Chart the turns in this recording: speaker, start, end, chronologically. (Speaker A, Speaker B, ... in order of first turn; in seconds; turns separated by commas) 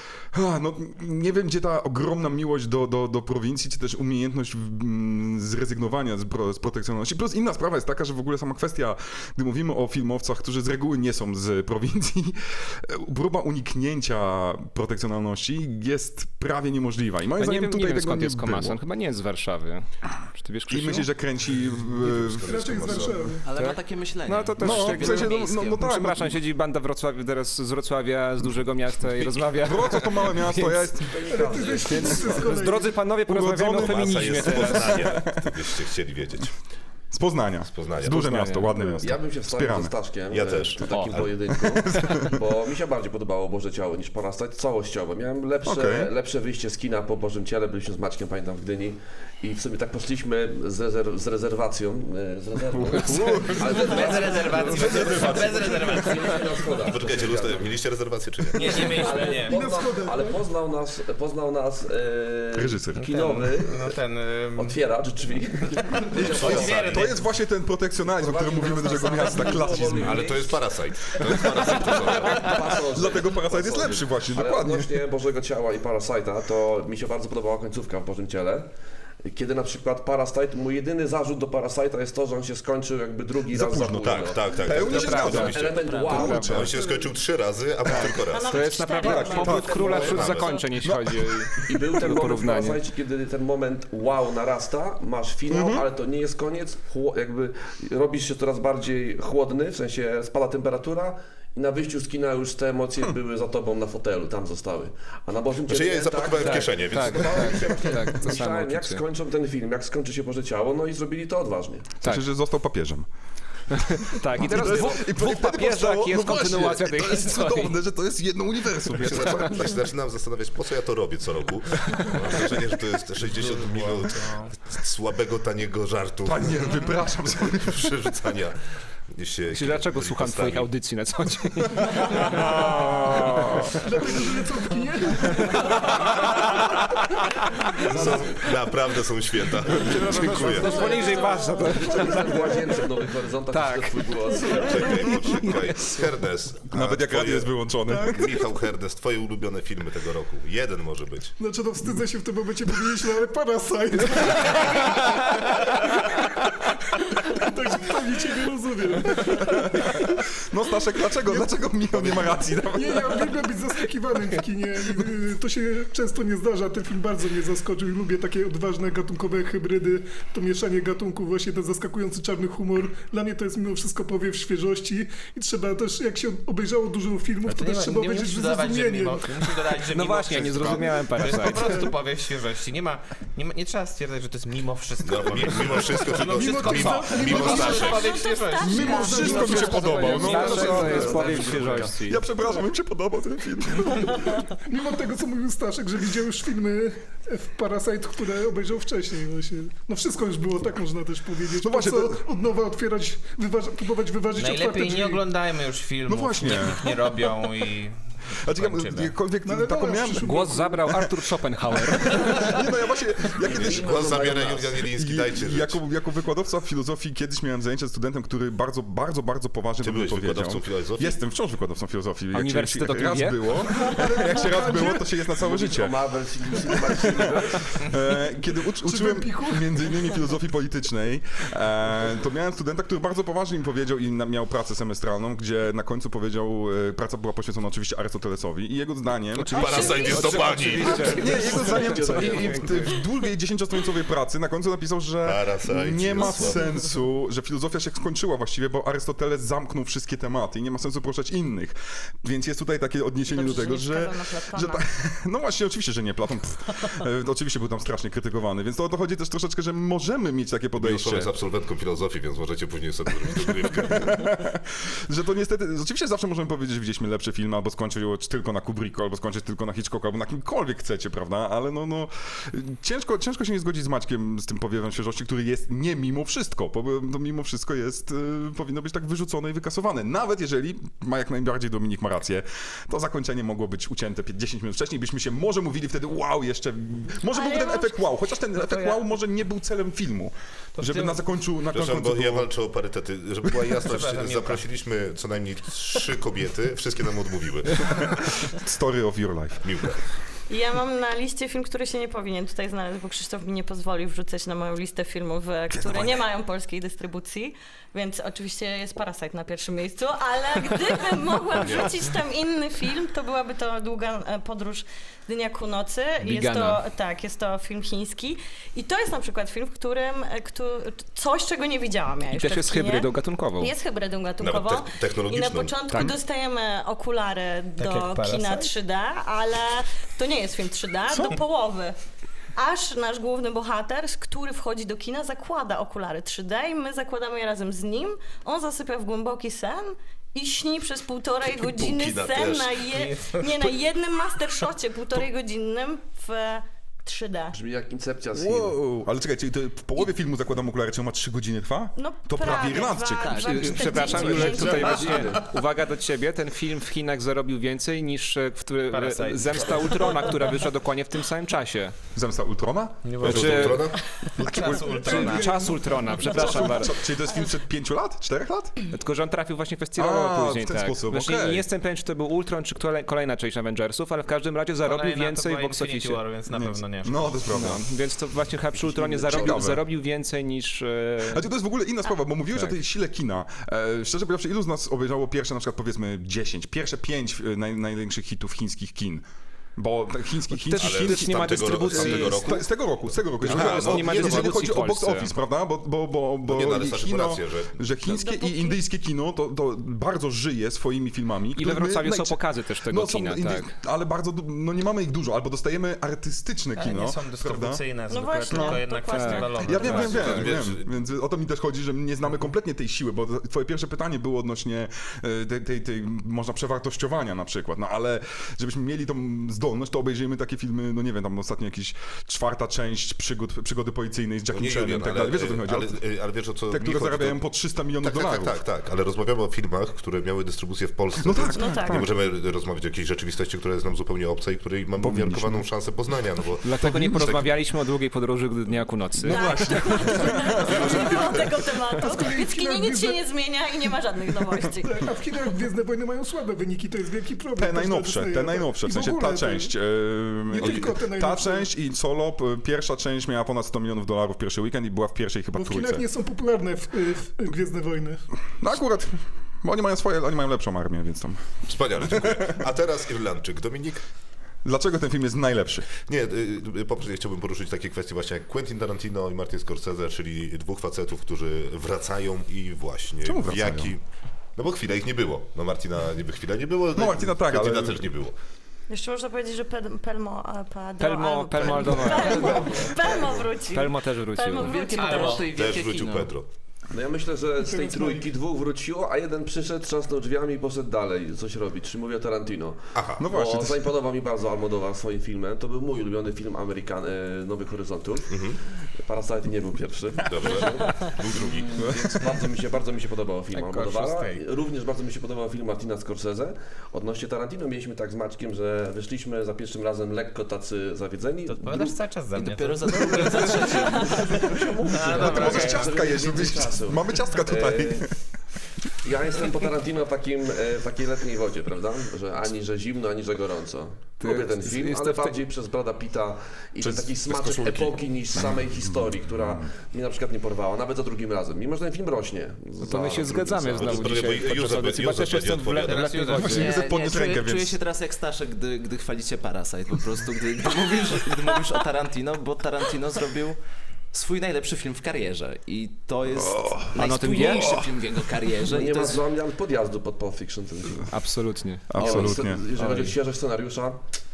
Speaker A: 0.3-18.8, Speaker B: 17.4-21.1, Speaker A: 20.7-23.0, Speaker C: 21.9-23.4, Speaker D: 22.4-23.5, Speaker E: 23.4-25.4, Speaker B: 23.6-30.9, Speaker A: 24.6-26.4, Speaker A: 29.2-35.6, Speaker F: 31.0-32.5, Speaker D: 31.3-33.0, Speaker B: 31.9-35.1, Speaker C: 33.7-36.5, Speaker A: 37.1-39.9, Speaker C: 37.7-38.3, Speaker B: 38.1-38.8, Speaker F: 39.0-57.8, Speaker C: 40.3-41.3, Speaker B: 40.8-41.2, Speaker A: 41.5-42.4, Speaker A: 45.6-46.1, Speaker A: 52.7-56.5, Speaker G: 53.6-56.7, Speaker C: 56.9-59.1, Speaker G: 58.5-59.6, Speaker F: 58.6-63.9, Speaker D: 59.4-60.4, Speaker A: 62.5-63.1, Speaker G: 63.0-64.8, Speaker F: 64.6-67.1, Speaker G: 66.0-67.2, Speaker A: 66.1-70.5, Speaker F: 68.2-70.6, Speaker G: 68.9-69.7, Speaker C: 70.0-72.7, Speaker A: 71.2-75.0, Speaker F: 71.6-78.7, Speaker F: 79.2-87.0, Speaker A: 83.5-86.7, Speaker C: 84.0-88.6, Speaker B: 84.9-86.7, Speaker A: 87.9-88.1, Speaker B: 88.0-92.8, Speaker H: 88.2-90.6, Speaker A: 89.0-91.8, Speaker C: 90.0-90.5, Speaker F: 91.7-112.0, Speaker A: 95.5-95.9, Speaker C: 105.7-107.7, Speaker B: 106.4-109.0, Speaker A: 112.0-113.1, Speaker B: 113.7-117.8, Speaker A: 114.3-119.7, Speaker C: 119.0-126.9, Speaker A: 126.2-128.0, Speaker C: 127.4-128.6, Speaker C: 129.1-130.7, Speaker B: 129.5-133.8, Speaker D: 133.7-137.0, Speaker B: 135.3-138.0, Speaker D: 137.8-138.0, Speaker C: 137.8-141.0, Speaker B: 139.8-142.8, Speaker F: 140.7-145.0, Speaker H: 140.7-141.6, Speaker B: 143.5-145.8, Speaker C: 144.4-151.3, Speaker A: 146.7-148.4, Speaker D: 147.8-148.4, Speaker D: 151.4-160.2, Speaker A: 159.2-163.4, Speaker D: 161.3-179.8, Speaker G: 177.5-191.5, Speaker B: 179.9-181.9, Speaker C: 185.0-188.2, Speaker D: 186.3-188.0, Speaker H: 187.7-190.1, Speaker A: 188.6-191.4, Speaker D: 188.7-190.5, Speaker B: 190.2-192.2, Speaker F: 190.4-192.1, Speaker A: 192.0-194.4, Speaker D: 194.7-205.2, Speaker A: 201.6-202.3, Speaker G: 204.4-209.2, Speaker A: 206.1-207.1, Speaker A: 208.4-211.1, Speaker D: 209.4-211.0, Speaker B: 210.2-212.6, Speaker A: 211.7-226.0, Speaker F: 213.4-214.8, Speaker C: 213.5-215.8, Speaker C: 219.8-221.2, Speaker B: 222.3-223.6, Speaker D: 223.6-225.2, Speaker F: 225.4-227.8, Speaker A: 226.8-239.6, Speaker D: 228.8-230.1, Speaker B: 239.3-242.5, Speaker H: 239.5-240.6, Speaker C: 239.5-241.4, Speaker F: 241.0-243.0, Speaker A: 241.1-261.3, Speaker C: 245.2-246.6, Speaker H: 253.3-254.8, Speaker C: 260.8-264.2, Speaker A: 263.3-292.5, Speaker H: 287.3-287.9, Speaker G: 288.6-289.0, Speaker G: 290.8-291.2, Speaker C: 291.7-298.2, Speaker G: 293.8-294.6, Speaker A: 297.8-299.8, Speaker C: 299.6-300.0, Speaker H: 300.5-332.0, Speaker A: 305.7-306.2, Speaker C: 311.6-312.0, Speaker B: 316.2-316.8, Speaker B: 322.3-323.7, Speaker C: 324.4-326.0, Speaker A: 325.9-326.2, Speaker G: 327.8-328.7, Speaker H: 332.6-347.5, Speaker C: 341.4-342.8, Speaker G: 342.9-343.7, Speaker F: 347.5-348.8, Speaker A: 348.3-355.1, Speaker H: 352.0-355.3, Speaker E: 353.2-353.6, Speaker B: 353.4-361.9, Speaker E: 354.4-354.7, Speaker G: 358.9-360.6, Speaker A: 362.1-363.8, Speaker G: 363.0-365.7, Speaker C: 363.2-364.0, Speaker B: 363.2-363.8, Speaker A: 364.4-365.1, Speaker B: 364.6-366.9, Speaker D: 365.0-365.7, Speaker A: 366.2-368.8, Speaker B: 368.9-376.2, Speaker A: 370.0-371.6, Speaker G: 374.8-377.4, Speaker A: 376.5-377.8, Speaker B: 377.5-381.4, Speaker F: 378.7-379.7, Speaker A: 379.2-379.8, Speaker A: 381.2-389.2, Speaker A: 389.8-407.8, Speaker B: 390.5-392.5, Speaker C: 390.8-394.6, Speaker B: 393.4-395.3, Speaker C: 396.4-397.8, Speaker H: 398.1-398.8, Speaker B: 401.6-403.7, Speaker G: 406.8-410.0, Speaker H: 408.1-410.5, Speaker A: 408.5-408.8, Speaker B: 409.1-410.5, Speaker A: 409.6-426.0, Speaker C: 409.9-410.9, Speaker C: 424.5-427.4, Speaker A: 426.7-428.6, Speaker C: 428.0-437.5, Speaker A: 431.2-432.1, Speaker H: 431.5-432.1, Speaker A: 435.0-435.7, Speaker B: 436.6-439.5, Speaker A: 436.8-437.5, Speaker A: 439.2-441.5, Speaker H: 439.2-445.0, Speaker D: 440.1-441.4, Speaker C: 440.7-441.3, Speaker D: 441.9-443.2, Speaker D: 444.8-449.7, Speaker A: 447.6-456.0, Speaker D: 450.5-451.7, Speaker C: 450.6-450.9, Speaker D: 455.5-458.2, Speaker A: 458.6-461.4, Speaker C: 461.7-464.0, Speaker A: 462.0-462.7, Speaker A: 464.6-465.9, Speaker C: 466.0-474.0, Speaker A: 473.2-473.9, Speaker C: 474.6-478.3, Speaker A: 476.9-478.1, Speaker H: 478.9-485.4, Speaker B: 481.0-482.8, Speaker B: 483.7-484.9, Speaker E: 484.6-486.3, Speaker G: 485.0-485.4, Speaker C: 485.5-486.5, Speaker F: 486.9-498.3, Speaker D: 487.6-488.2, Speaker C: 492.9-493.3, Speaker A: 493.2-493.9, Speaker C: 498.3-498.6, Speaker F: 499.0-512.0, Speaker C: 500.3-502.1, Speaker A: 501.8-502.3, Speaker G: 503.5-504.4, Speaker G: 511.5-516.0, Speaker E: 512.3-514.6, Speaker F: 513.1-518.1, Speaker A: 515.1-518.1, Speaker F: 519.0-534.2, Speaker B: 524.2-525.4, Speaker A: 526.8-529.7, Speaker B: 532.8-536.8, Speaker C: 533.8-536.2, Speaker G: 535.9-536.7, Speaker A: 536.3-537.8, Speaker E: 536.4-543.6, Speaker E: 544.1-549.2, Speaker A: 546.3-548.0, Speaker B: 547.0-547.7, Speaker F: 548.6-551.1, Speaker B: 551.1-553.1, Speaker A: 551.9-552.6, Speaker F: 552.0-554.0